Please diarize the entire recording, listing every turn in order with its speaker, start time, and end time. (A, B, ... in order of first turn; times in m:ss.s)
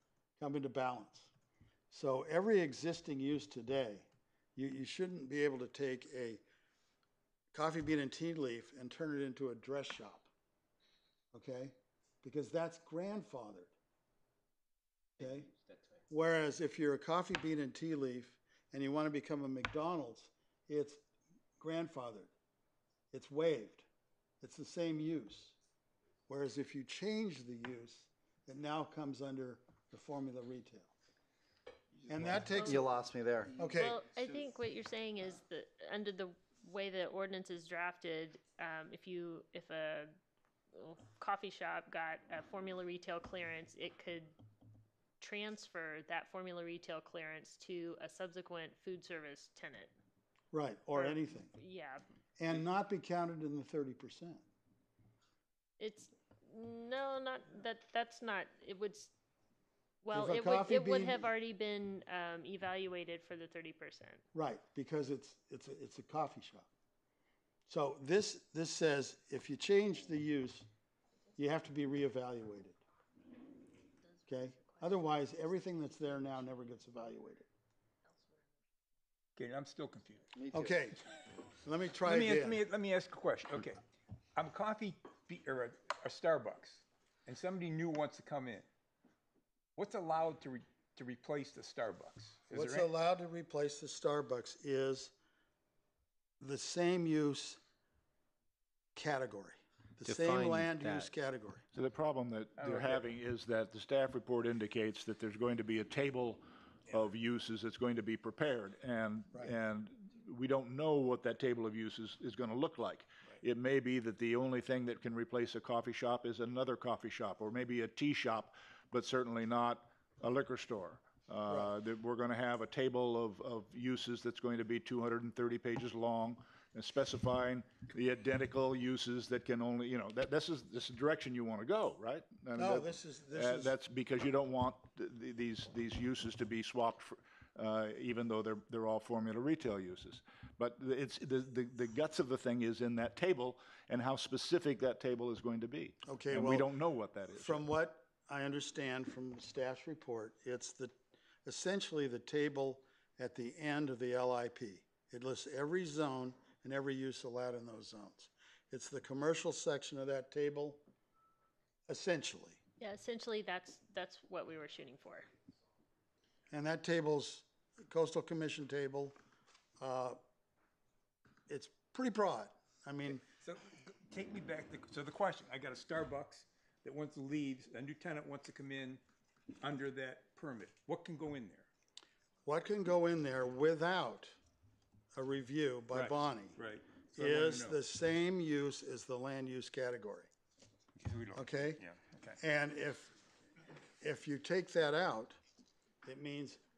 0:00.4-0:01.3 A
0:01.9-0:06.4 A
0:07.5-0:10.3 A
0:11.3-0:13.7 A
0:15.2-0:15.5 A
0:16.1-0:21.0 A
0:21.6-0:22.3 A
0:23.1-0:23.9 A
0:24.4-0:25.6 A
0:26.3-0:30.9 A
0:32.0-0:33.0 A
0:32.2-0:33.5 B
0:33.5-0:34.0 A
0:33.7-0:40.2 C
0:40.7-0:44.3 C
0:45.2-0:49.9 C
0:50.5-0:51.5 A
0:50.9-0:52.0 C
0:52.4-0:54.4 A
0:55.8-0:59.1 C
1:00.0-1:04.2 C
1:00.1-1:01.3 A
1:04.3-1:06.7 A
1:07.7-1:10.7 A
1:11.4-1:12.8 A
1:14.1-1:15.3 C
1:14.3-1:17.5 A
1:19.4-1:20.3 D
1:20.4-1:20.7 B
1:20.5-1:21.0 A
1:21.6-1:22.6 A
1:22.0-1:23.8 D
1:24.3-1:28.7 D
1:29.8-1:32.9 D
1:32.5-1:35.1 A
1:36.4-1:37.6 A
1:39.0-1:41.6 A
1:40.0-1:41.1 B
1:41.7-2:27.6 E
1:42.6-1:43.0 D
2:01.5-2:01.7 A
2:12.6-2:13.8 A
2:26.1-2:26.7 A
2:27.3-2:40.8 A
2:41.9-2:42.6 A
2:42.8-2:45.3 C
2:46.5-2:49.2 A
2:49.8-2:50.2 A
2:51.5-2:53.2 A
2:53.4-2:59.0 D
2:59.6-3:01.7 D
3:02.5-3:04.3 A
3:05.1-3:06.6 A
3:05.9-3:07.8 D
3:07.2-3:10.3 A
3:11.0-3:12.4 D
3:11.3-3:11.8 A
3:12.4-3:13.2 A
3:14.0-3:15.4 A
3:16.0-3:16.6 A